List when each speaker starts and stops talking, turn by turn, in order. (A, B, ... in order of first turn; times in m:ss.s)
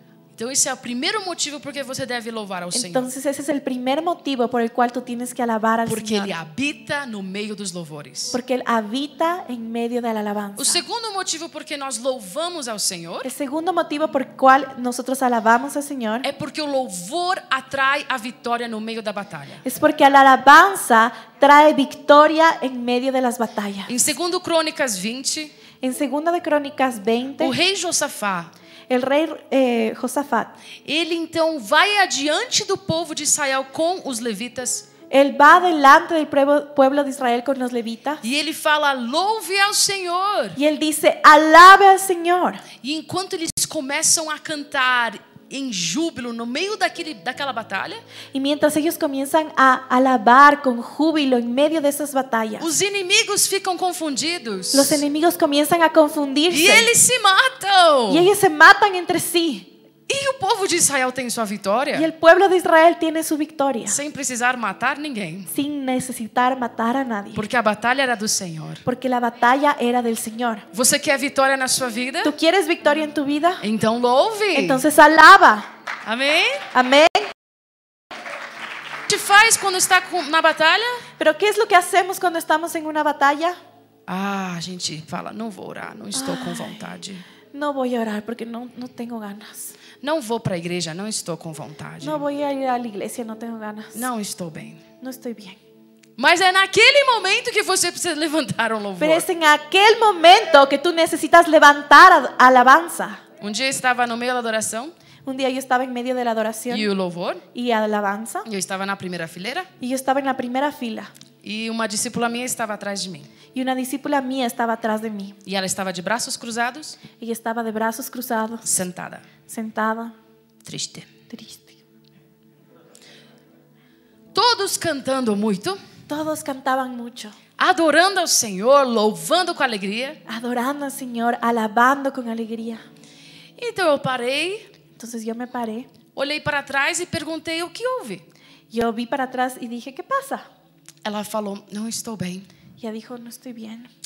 0:00.4-0:03.1 A
0:02.7-0:06.3 B
0:05.8-0:08.4 A
0:08.3-0:10.8 B
0:10.6-0:13.3 A
0:13.2-0:16.2 B
0:16.2-0:19.6 A
0:19.6-0:23.9 B
0:23.9-0:25.5 A
0:25.8-0:27.5 B
0:27.4-0:28.5 A
0:28.9-0:30.5 B
0:30.8-0:34.8 A
0:35.1-0:38.2 B
0:38.2-0:40.6 A
0:40.6-0:42.6 B
0:42.8-0:48.0 A
0:48.3-0:52.7 B
0:52.6-0:55.0 A
0:54.7-0:56.9 B
0:56.5-0:58.3 A
0:58.1-0:59.7 B
1:00.1-1:02.1 A
1:01.9-1:04.0 B
1:03.8-1:05.5 A
1:05.5-1:07.4 B
1:07.3-1:08.8 A
1:08.8-1:10.6 B
1:10.7-1:12.3 A
1:12.2-1:13.6 B
1:13.6-1:14.8 A
1:14.5-1:15.7 B
1:16.0-1:16.7 A
1:16.7-1:17.3 B
1:19.1-1:21.0 A
1:21.2-1:23.6 B
1:24.1-1:27.2 A
1:26.1-1:26.9 B
1:27.5-1:29.8 B
1:30.0-1:32.2 A
1:32.0-1:34.0 B
1:33.9-1:34.8 A
1:35.0-1:35.6 B
1:36.2-1:39.2 A
1:39.0-1:43.2 B
1:43.4-1:44.9 A
1:45.2-1:46.9 B
1:46.7-1:47.4 A
1:47.5-1:48.5 B
1:48.4-1:49.7 A
1:49.8-1:51.1 B
1:51.4-1:53.3 A
1:53.5-1:55.4 B
1:55.4-1:57.0 A
1:57.2-1:58.6 B
1:58.6-1:59.2 A
1:59.5-2:00.1 B
2:00.6-2:01.1 A
2:01.3-2:01.8 B
2:04.3-2:05.8 A
2:06.1-2:07.4 B
2:07.6-2:10.2 A
2:10.3-2:12.8 B
2:13.6-2:14.7 A
2:15.0-2:15.9 B
2:16.1-2:18.2 A
2:18.7-2:20.5 B
2:21.0-2:22.5 A
2:22.8-2:23.9 B